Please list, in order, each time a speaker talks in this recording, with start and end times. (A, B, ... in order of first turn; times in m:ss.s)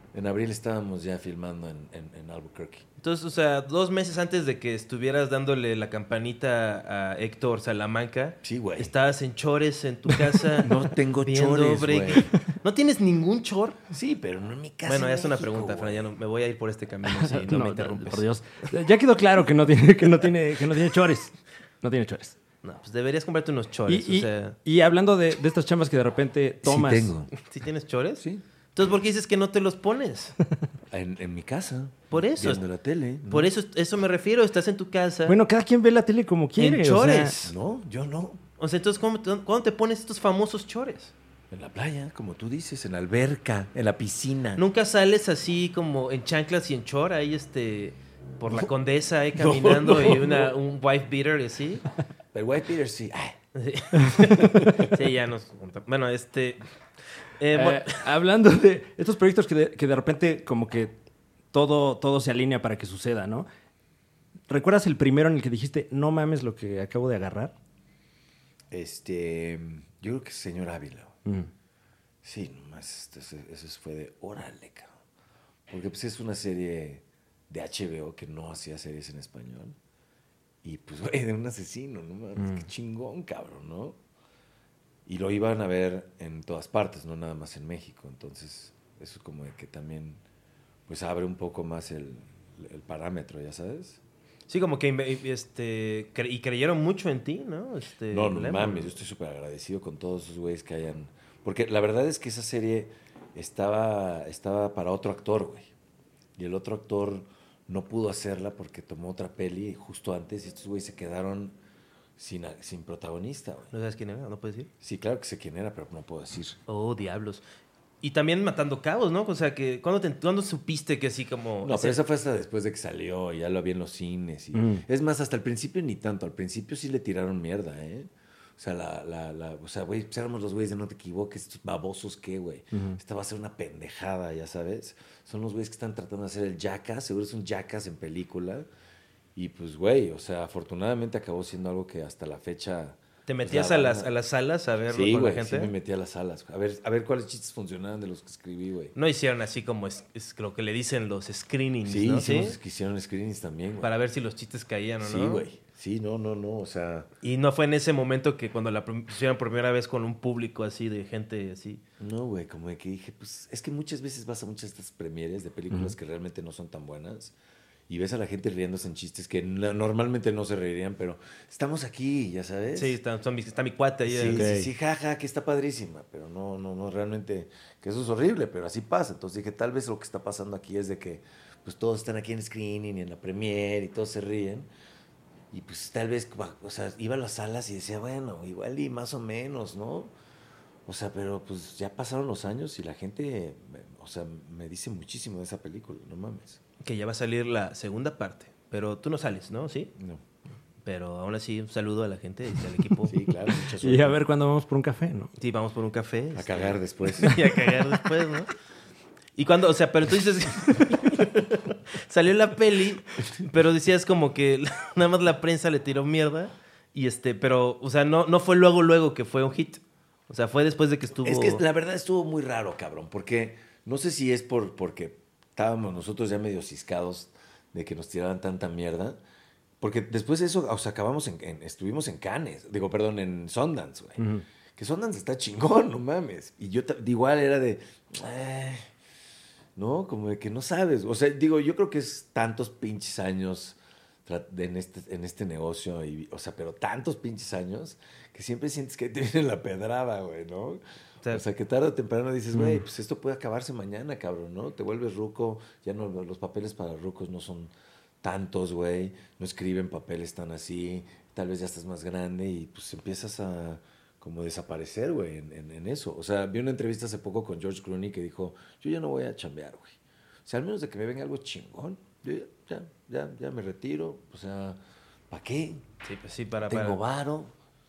0:00.1-0:02.8 A
0:03.0-0:13.8 B
0:08.4-0:08.9 A
0:10.6-0:12.3 A
0:13.9-0:16.1 A
0:14.9-0:18.3 B
0:17.1-0:22.4 C
0:22.6-0:24.6 B
0:23.9-0:27.1 C
0:26.6-0:27.3 A
0:27.4-0:30.3 B
0:30.9-0:33.5 A
0:32.1-0:32.6 B
0:33.3-0:35.4 B
0:35.3-0:37.4 C
0:36.6-0:37.5 B
0:37.4-0:38.4 A
0:38.6-0:41.1 B
0:41.5-0:44.6 A
0:44.6-0:51.8 B
0:49.4-0:50.5 A
0:52.3-0:53.4 A
0:53.6-0:56.7 B
0:54.4-0:54.9 A
0:57.4-0:58.0 B
0:57.5-1:00.9 C
1:01.5-1:03.5 C
1:04.5-1:07.5 C
1:08.7-1:11.2 A
1:12.2-1:14.9 A
1:15.7-1:19.8 A
1:20.6-1:24.0 A
1:25.1-1:30.2 A
1:30.9-1:34.0 A
1:34.5-1:39.0 B
1:38.1-1:45.7 A
1:46.4-1:51.6 A
1:52.2-1:53.7 A
1:53.7-1:54.7 B
1:54.8-1:56.6 A
1:56.7-1:57.4 B
1:58.0-2:02.0 B
2:01.6-2:18.7 A
2:04.5-2:04.8 C
2:12.7-2:13.0 C
2:19.4-2:24.1 A
2:23.3-2:25.7 B
2:24.9-2:29.0 A
2:29.0-2:32.6 B
2:31.8-2:33.9 A
2:33.8-2:35.5 B
2:35.0-2:37.1 A
2:37.2-2:41.8 B
2:42.0-2:47.4 A
2:47.9-2:53.0 A
2:52.8-2:54.5 B
2:54.1-3:04.7 A
2:54.3-2:54.7 C
3:05.5-3:10.1 A
3:10.9-3:16.6 A
3:16.8-3:19.9 B
3:20.0-3:20.2 A
3:20.8-3:23.2 B
3:23.1-3:24.2 A
3:23.8-3:25.3 C
3:25.4-3:28.5 B
3:26.4-3:27.4 A
3:29.4-3:41.6 B
3:41.2-3:49.2 A
3:49.8-3:58.9 A
3:54.2-3:54.4 C
3:59.8-4:34.8 A
4:12.5-4:12.8 C
4:35.3-4:35.8 A
4:36.0-4:37.0 B
4:36.7-4:37.5 A